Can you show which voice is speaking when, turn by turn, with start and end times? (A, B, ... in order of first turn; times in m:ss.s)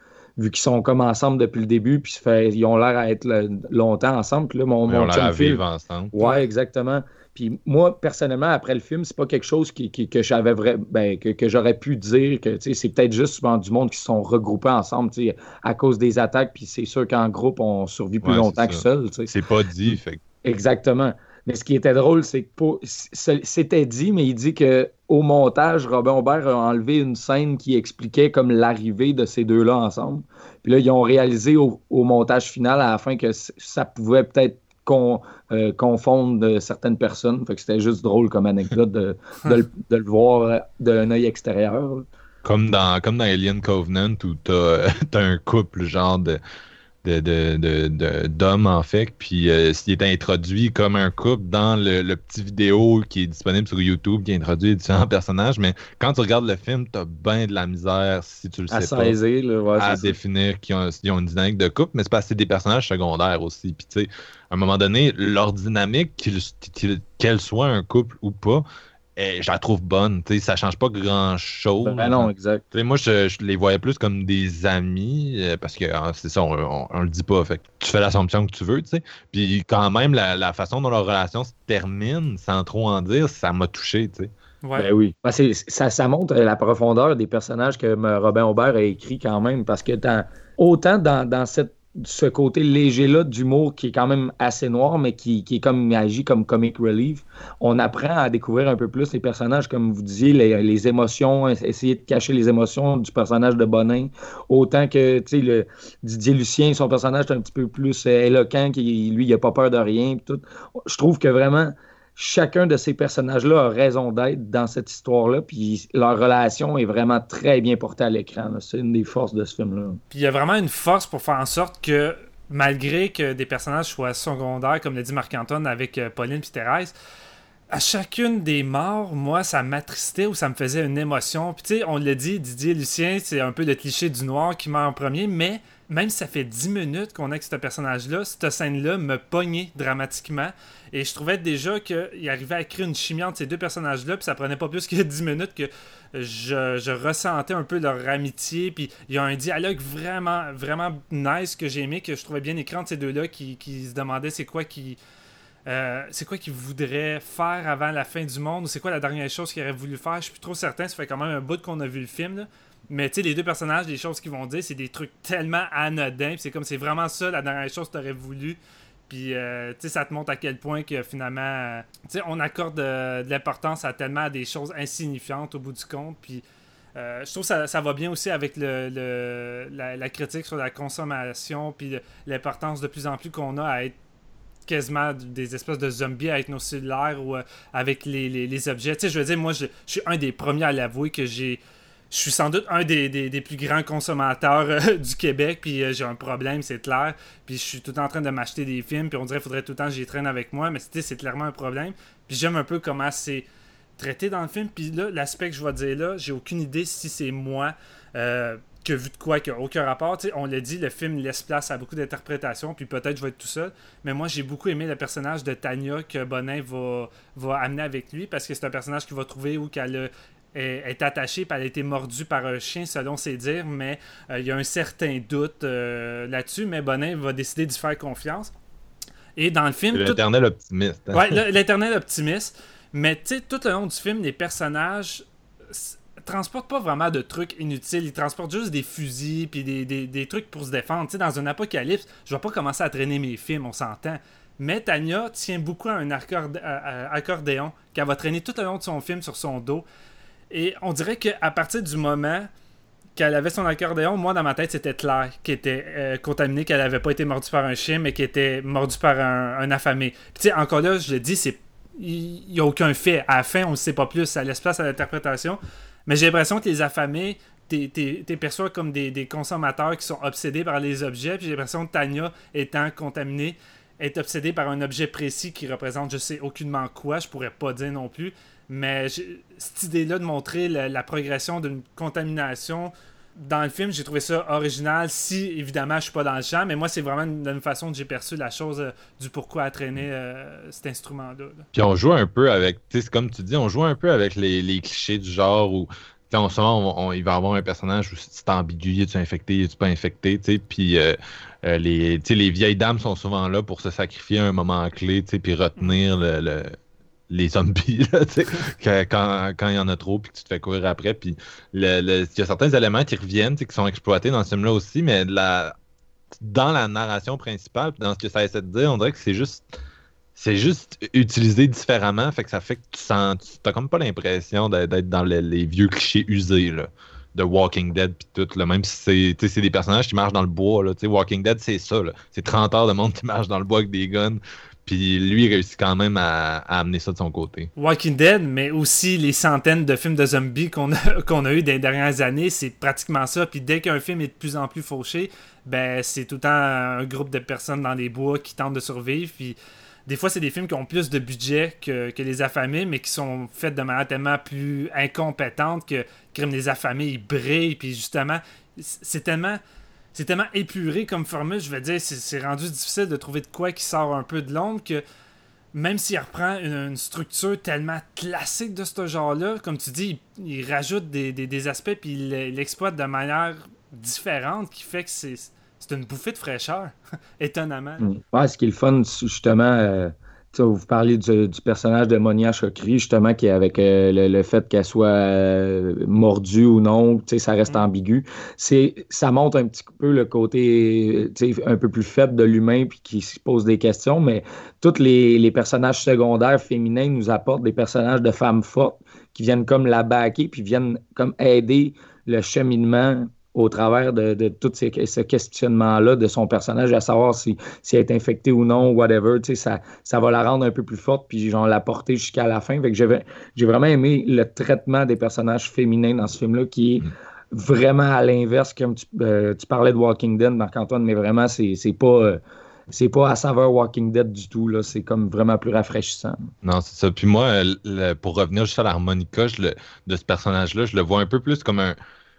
0:00.4-0:19.3 A
0:04.9-0:06.1 B
0:06.2-0:06.4 C
0:18.2-0:20.2 B
0:19.9-0:42.1 A
0:42.4-0:46.4 B
0:47.0-0:59.2 B
0:58.7-1:00.2 A
0:59.8-1:08.6 B
1:09.2-1:24.3 B
1:11.8-1:12.6 A
1:24.6-1:24.9 C
1:24.8-2:00.0 A
2:00.1-2:06.9 C
2:07.7-2:35.0 C
2:35.7-2:56.4 C
2:57.0-3:04.0 C
3:04.7-3:23.5 C
3:24.0-3:48.5 C
3:49.4-3:50.2 C
3:49.9-3:51.4 B
3:51.1-4:09.9 C
4:10.5-4:12.5 C
4:13.2-4:51.7 C
4:51.7-5:06.8 B
5:07.3-5:15.8 B
5:16.4-5:19.6 B
5:20.4-5:37.7 B
5:37.8-5:59.6 C
6:00.1-6:05.0 C
6:05.7-6:18.1 C
6:18.0-7:06.5 A
7:06.6-7:12.0 B